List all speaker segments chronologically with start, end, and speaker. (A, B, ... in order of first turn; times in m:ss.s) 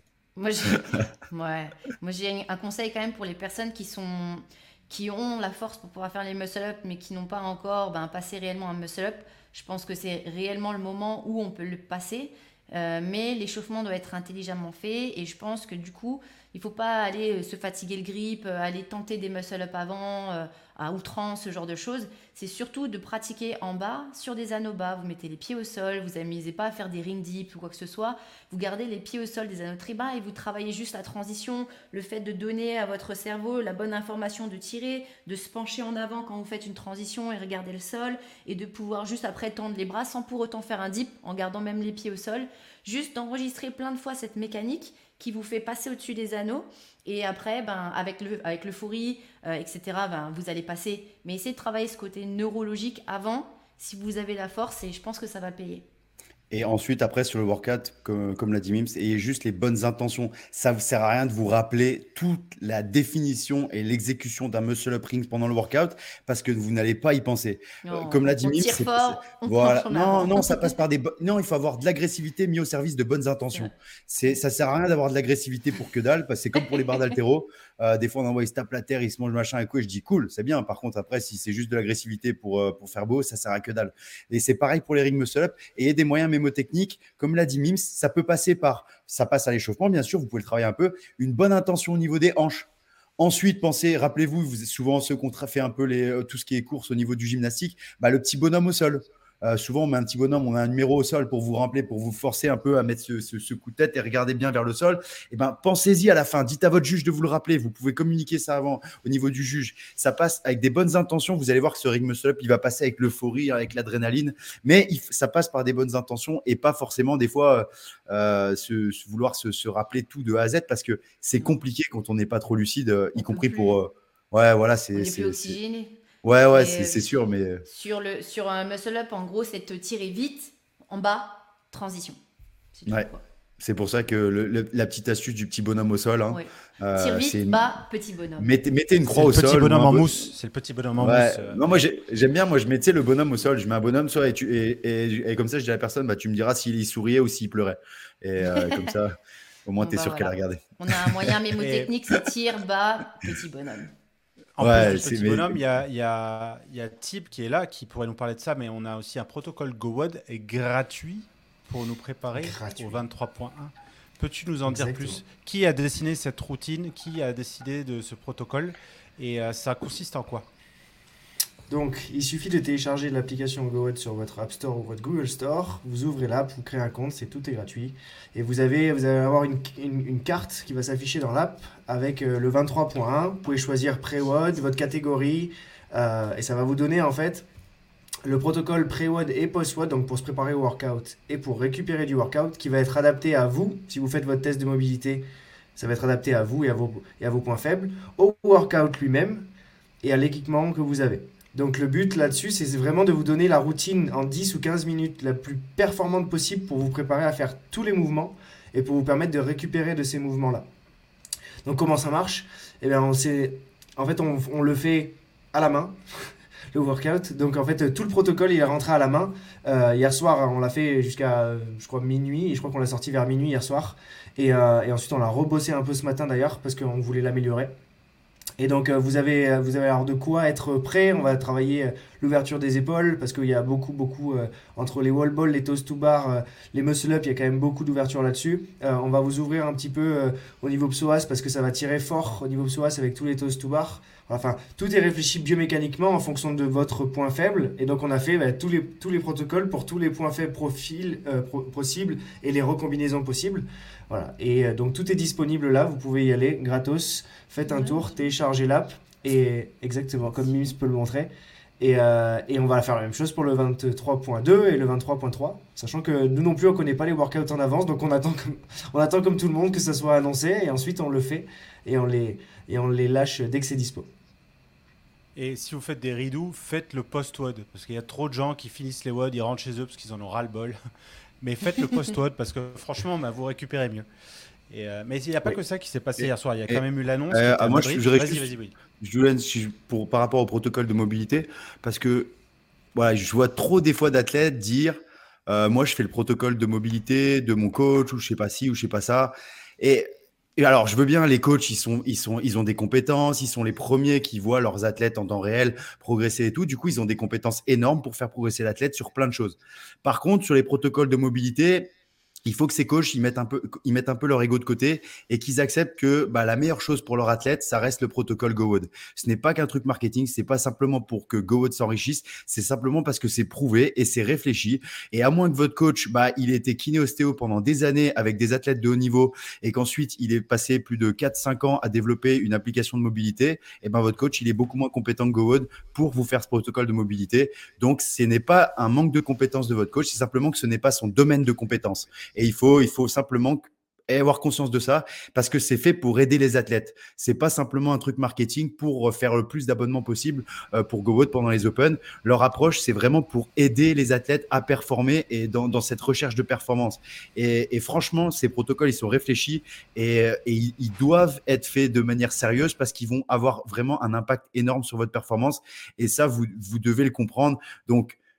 0:00.4-0:55.8 A
0:56.5-2:05.6 B
1:07.8-1:10.7 A
2:03.2-2:03.8 A
2:04.9-2:06.0 A
2:06.2-2:07.6 B
2:06.5-2:07.0 A
2:07.6-2:12.2 A
2:12.7-2:13.2 A
2:12.9-2:17.6 B
2:16.3-2:18.5 A
2:18.4-2:20.2 B
2:19.0-2:21.6 C
2:21.0-2:29.1 B
2:28.4-2:28.9 A
2:29.6-2:31.3 B
2:29.8-2:33.9 A
2:31.6-2:31.9 C
2:34.6-2:50.5 C
2:34.6-2:35.6 B
2:42.3-2:43.0 D
2:44.6-2:45.2 D
2:51.7-3:07.4 D
3:08.2-3:15.2 D
3:15.8-3:19.5 D
3:20.0-3:30.7 D
3:31.6-3:36.0 D
3:36.7-3:47.7 D
3:48.6-4:34.1 D
4:17.7-4:18.0 A
4:35.4-4:40.8 C
4:41.4-4:44.1 C
4:44.7-4:48.7 C
4:46.2-4:48.5 B
4:49.0-4:52.4 B
4:52.9-5:11.9 B
5:12.4-6:08.2 B